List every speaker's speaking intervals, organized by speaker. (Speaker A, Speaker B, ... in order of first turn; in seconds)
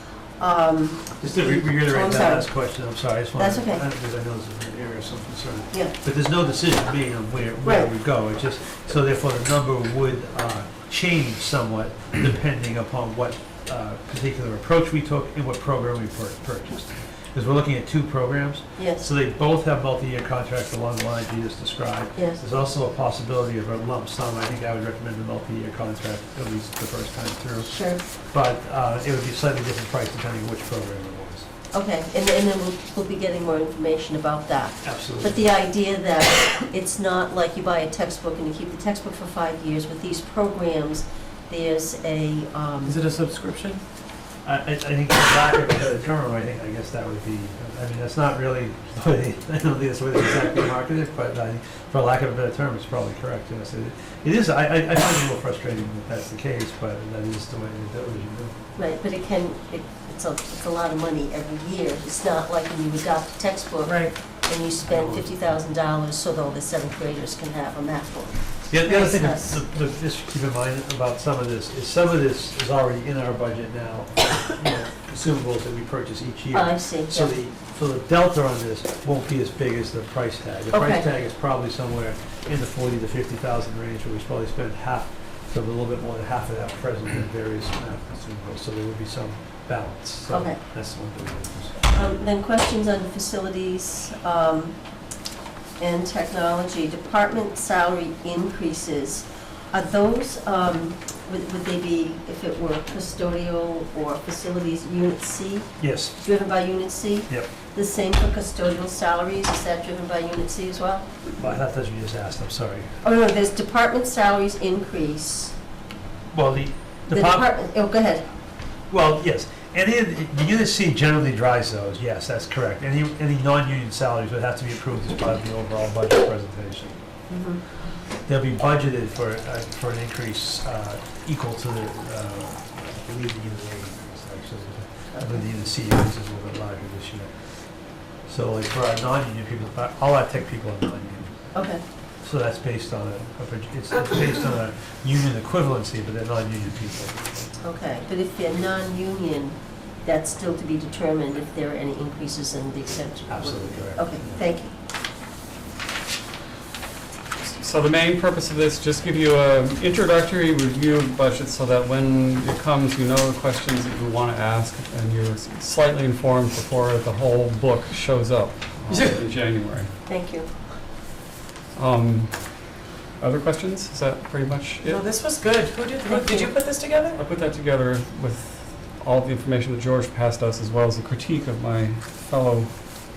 Speaker A: 0.4-2.5, 3.4-3.8, 7.7-7.9, 18.8-19.1, 27.7-28.0, 31.7-43.0, 58.8-69.6, 76.5-77.3, 80.7-81.1, 90.3-90.6, 91.9-94.7, 95.8-111.1, 113.0-115.5, 117.1-118.2, 127.3-127.6, 141.5-141.8, 147.6-154.7, 170.1-170.5, 176.1-176.5
Speaker B: 1.2-31.5, 34.8-35.5, 44.5-58.5, 64.9-65.3, 68.7-91.9, 105.8-106.2, 111.4-113.0, 116.3-117.5, 118.9-127.0, 128.3-137.3, 138.3-141.3, 142.2-147.5, 153.3-154.5
Speaker C: 42.9-43.8, 63.9-64.1, 168.9-169.2, 174.9-177.2
Speaker D: 157.4-169.9, 171.7-175.0, 177.1-182.7